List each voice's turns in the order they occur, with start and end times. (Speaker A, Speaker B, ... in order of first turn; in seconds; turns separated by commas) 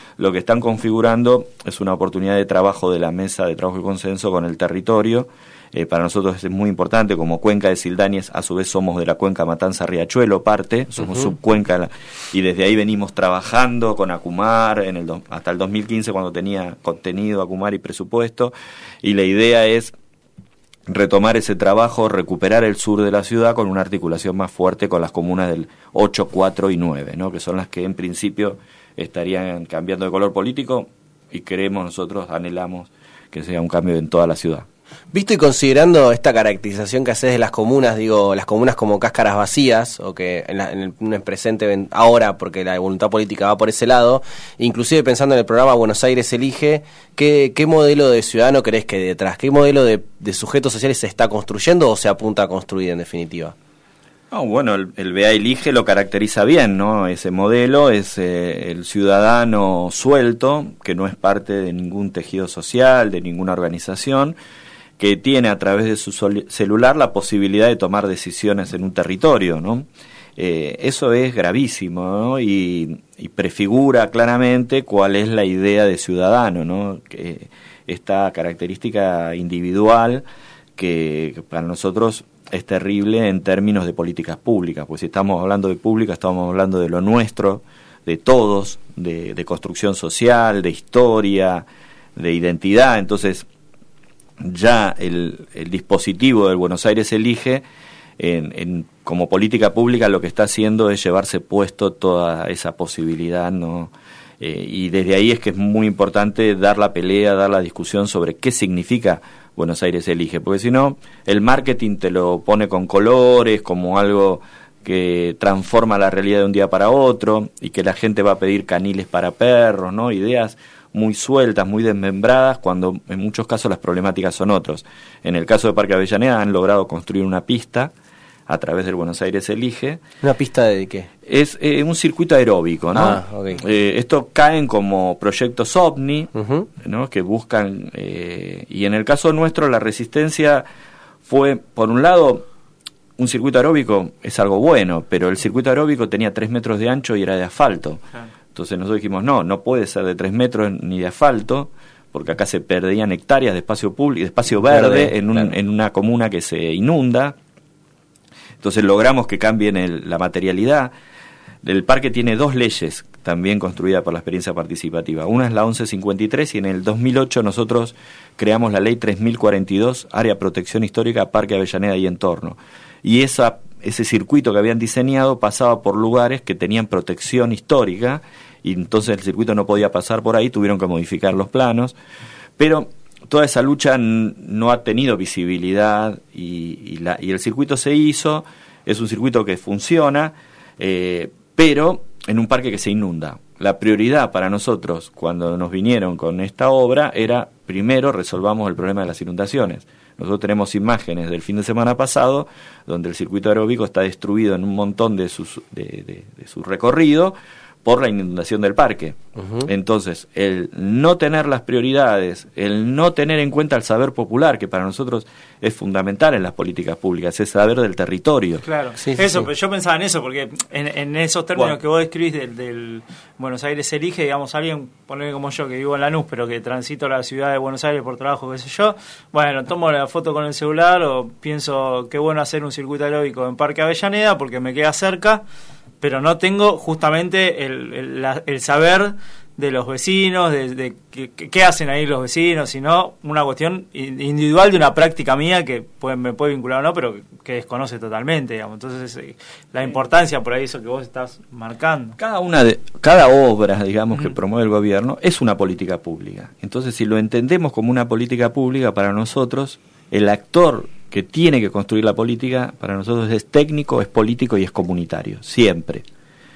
Speaker A: 0.2-19.9, Speaker A: 20.9-34.6, Speaker B: 35.1-53.5, Speaker A: 54.3-64.3, Speaker A: 65.0-80.2, Speaker A: 80.8-91.6, Speaker A: 92.2-93.5, Speaker A: 94.4-97.6, Speaker A: 98.2-127.9, Speaker A: 128.5-130.0, Speaker B: 130.2-131.1, Speaker A: 131.2-140.6, Speaker B: 132.9-133.6, Speaker B: 136.3-136.7, Speaker A: 141.2-142.4, Speaker A: 143.2-148.0, Speaker A: 148.5-157.4, Speaker B: 154.7-155.5, Speaker A: 158.6-160.9, Speaker A: 161.6-181.9, Speaker A: 182.6-218.6, Speaker B: 209.4-209.7, Speaker C: 218.6-235.4, Speaker B: 219.0-219.4, Speaker C: 236.0-252.2, Speaker A: 252.2-266.0